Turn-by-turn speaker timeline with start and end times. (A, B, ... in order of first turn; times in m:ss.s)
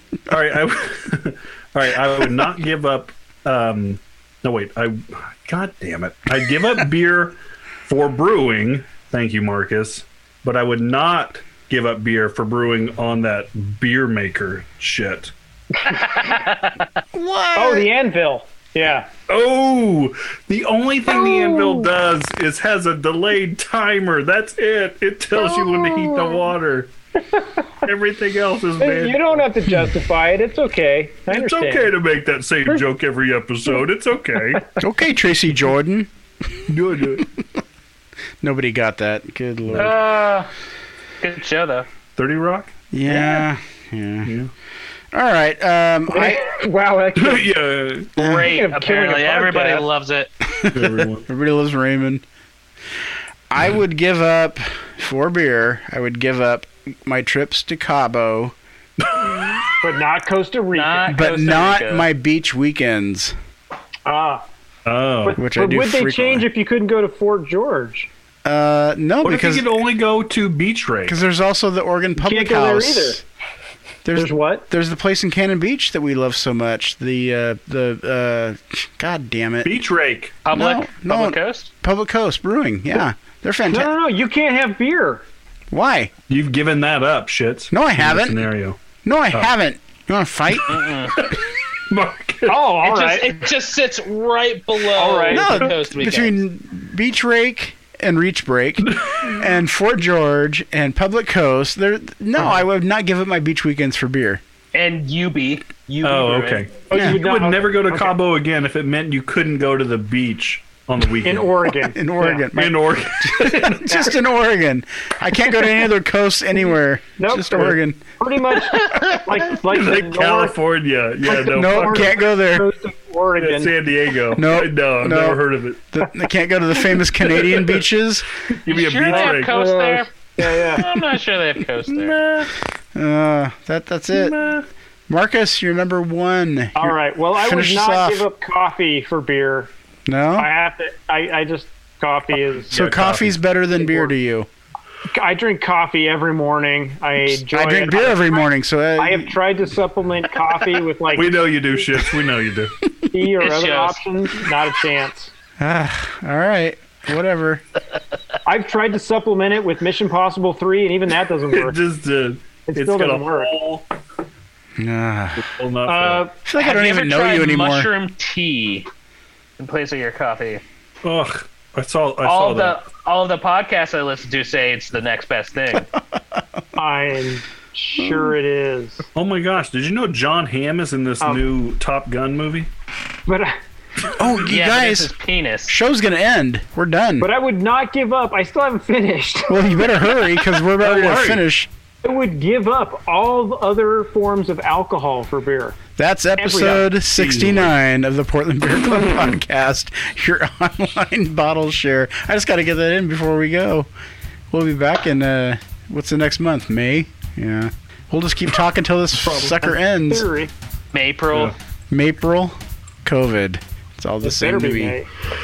0:00.3-0:15.3 A
0:15.8-0:16.2 B
0:15.9-0:16.8 C
0:17.2-0:17.9 D
0:17.6-0:19.1 B
0:19.3-0:26.9 A
0:21.1-0:21.9 B
0:25.4-0:26.4 B
0:27.8-0:29.5 A
0:28.8-0:31.9 B
0:31.3-0:34.6 A
0:34.8-0:36.1 D
0:36.7-0:37.3 D
0:36.7-0:37.3 A
0:38.4-0:40.0 D
0:39.7-0:40.0 A
0:39.8-0:40.5 C
0:41.2-0:41.9 C
0:42.2-0:43.4 A
0:42.9-0:44.3 D
0:44.2-0:44.5 A
0:45.1-0:46.4 D
0:46.1-0:47.6 B
0:47.2-0:48.1 A
0:48.2-0:48.6 D
0:48.2-0:50.3 C
0:48.2-0:49.9 B
0:50.6-0:52.2 D
0:50.7-0:51.3 A
0:53.5-0:58.6 D
0:59.0-0:59.6 A
0:59.8-1:01.6 B
1:00.8-1:02.1 C
1:01.1-1:03.4 D
1:04.1-1:04.4 B
1:04.9-1:05.4 A
1:05.2-1:08.1 B
1:05.4-1:06.5 D
1:08.4-1:09.7 D
1:09.2-1:11.2 A
1:11.1-1:13.2 D
1:12.2-1:13.2 B
1:14.0-1:19.8 D
1:14.2-1:14.7 B
1:19.6-1:20.4 A
1:20.4-1:21.7 C
1:20.5-1:23.9 D
1:23.7-1:25.2 B
1:25.7-1:26.1 D
1:26.3-1:28.8 A
1:27.7-1:28.5 D
1:29.0-1:30.8 D
1:30.7-1:31.2 C
1:31.1-1:32.6 A
1:32.5-1:33.4 B
1:32.8-1:36.4 C
1:35.0-1:35.7 B
1:35.3-1:44.4 D
1:38.8-1:39.4 A
1:42.4-1:42.6 B
1:44.7-1:46.7 C
1:46.0-1:51.5 A
1:46.9-1:48.2 B
1:51.2-1:52.5 B
1:51.9-1:58.0 D
1:52.5-1:54.1 A
1:57.2-2:00.6 B
1:58.9-1:59.2 C
1:59.6-2:02.2 A
2:01.2-2:03.8 B
2:01.3-2:02.7 D
2:03.4-2:05.8 A
2:04.3-2:08.3 D
2:07.3-2:07.8 A
2:08.7-2:09.5 A
2:08.7-2:10.1 C
2:09.1-2:10.8 B
2:10.7-2:12.5 C
2:13.0-2:14.4 D
2:14.3-2:14.6 A
2:15.1-2:18.2 D
2:16.8-2:19.7 B
2:20.1-2:20.5 D
2:20.4-2:22.8 B
2:22.7-2:23.4 A
2:22.7-2:24.5 D
2:23.8-2:24.2 B
2:25.1-2:31.5 B
2:27.3-2:29.4 D
2:31.1-2:32.7 A
2:33.1-2:35.3 B
2:33.4-2:34.0 C
2:35.6-2:37.6 D
2:38.5-2:41.8 B
2:41.5-2:43.9 A
2:42.7-2:43.5 B
2:44.8-2:45.4 D
2:45.4-2:46.2 A
2:45.9-2:46.3 B
2:46.4-2:47.9 D
2:46.6-2:48.9 C
2:49.6-2:50.6 C
2:51.0-2:52.8 A
2:52.2-2:55.9 C
2:56.8-2:59.1 B
2:58.0-2:58.3 D
2:59.2-3:02.7 A
3:03.3-3:03.6 B
3:04.1-3:05.1 D
3:04.4-3:05.8 C
3:05.7-3:07.3 D
3:07.2-3:09.9 B
3:09.5-3:11.7 D
3:10.8-3:11.4 A
3:12.0-3:15.8 B
3:16.0-3:23.9 D
3:16.4-3:16.9 B
3:17.0-3:17.7 A
3:24.5-3:30.3 D
3:29.2-3:30.5 B
3:30.9-3:31.6 C
3:31.9-3:35.0 D
3:34.2-3:35.1 B